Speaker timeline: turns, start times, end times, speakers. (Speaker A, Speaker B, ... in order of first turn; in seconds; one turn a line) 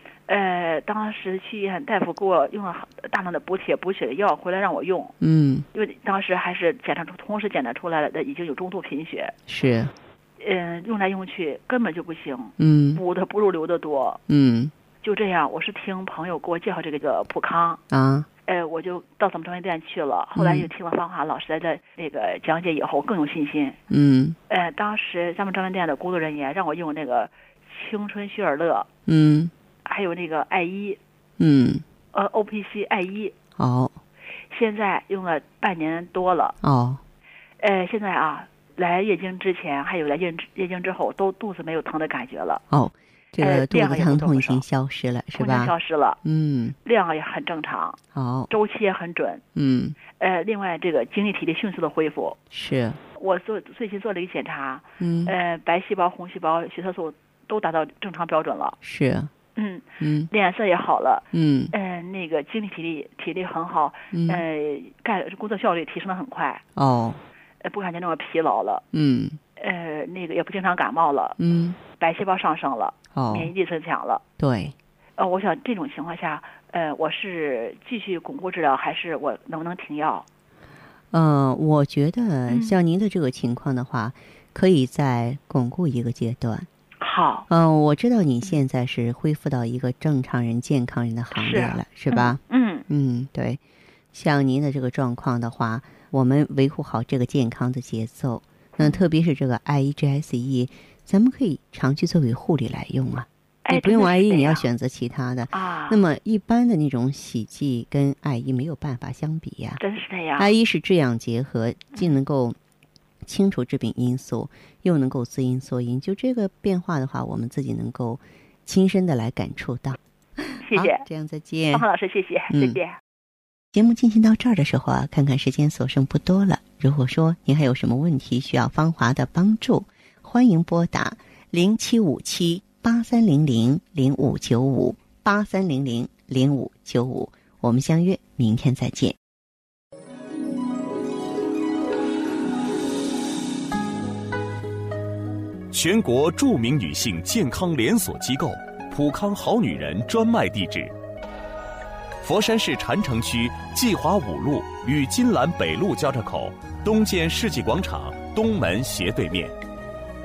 Speaker A: 0.3-5.1
Speaker B: 5.2-5.6
Speaker A: 5.7-9.3
Speaker B: 9.5-9.9
Speaker A: 10.4-14.2
Speaker B: 12.6-13.0
Speaker B: 14.3-14.7
Speaker A: 15.0-17.8
Speaker B: 17.9-18.3
Speaker A: 18.4-23.8
Speaker B: 20.4-20.7
Speaker B: 23.9-24.4
Speaker A: 24.5-28.9
Speaker B: 29.1-29.5
Speaker A: 29.8-31.0
Speaker B: 31.4-31.8
Speaker A: 32.1-33.3
Speaker B: 33.6-34.0
Speaker A: 34.5-36.5
Speaker B: 36.6-37.0
Speaker A: 37.6-42.6
Speaker B: 42.7-46.8
Speaker A: 43.4-44.6
Speaker A: 45.4-46.2
Speaker A: 46.8-49.4
Speaker B: 48.1-48.5
Speaker B: 49.5-50.0
Speaker A: 50.2-52.4
Speaker B: 52.5-53.0
Speaker A: 53.1-58.8
Speaker B: 55.0-55.3
Speaker B: 58.8-59.3
Speaker A: 59.5-66.6
Speaker B: 60.0-60.3
Speaker B: 61.3-61.7
Speaker B: 64.1-64.4
Speaker B: 66.8-67.2
Speaker A: 67.6-68.8
Speaker B: 68.9-69.4
Speaker A: 69.6-71.4
Speaker B: 71.4-71.8
Speaker A: 72.0-74.2
Speaker B: 73.1-73.5
Speaker B: 74.4-74.7
Speaker A: 75.2-80.2
Speaker B: 81.1-86.7
Speaker A: 82.5-82.8
Speaker A: 87.0-87.5
Speaker B: 87.5-93.6
Speaker A: 91.3-92.8
Speaker B: 94.1-109.8
Speaker A: 98.8-99.0
Speaker A: 103.6-104.7
Speaker A: 105.5-106.0
Speaker A: 109.8-110.5
Speaker B: 110.4-112.6
Speaker B: 113.2-121.8
Speaker A: 120.6-121.0
Speaker A: 121.7-123.0
Speaker B: 122.5-122.8
Speaker B: 123.7-139.2
Speaker C: 145.7-150.9
Speaker C: 152.2-159.6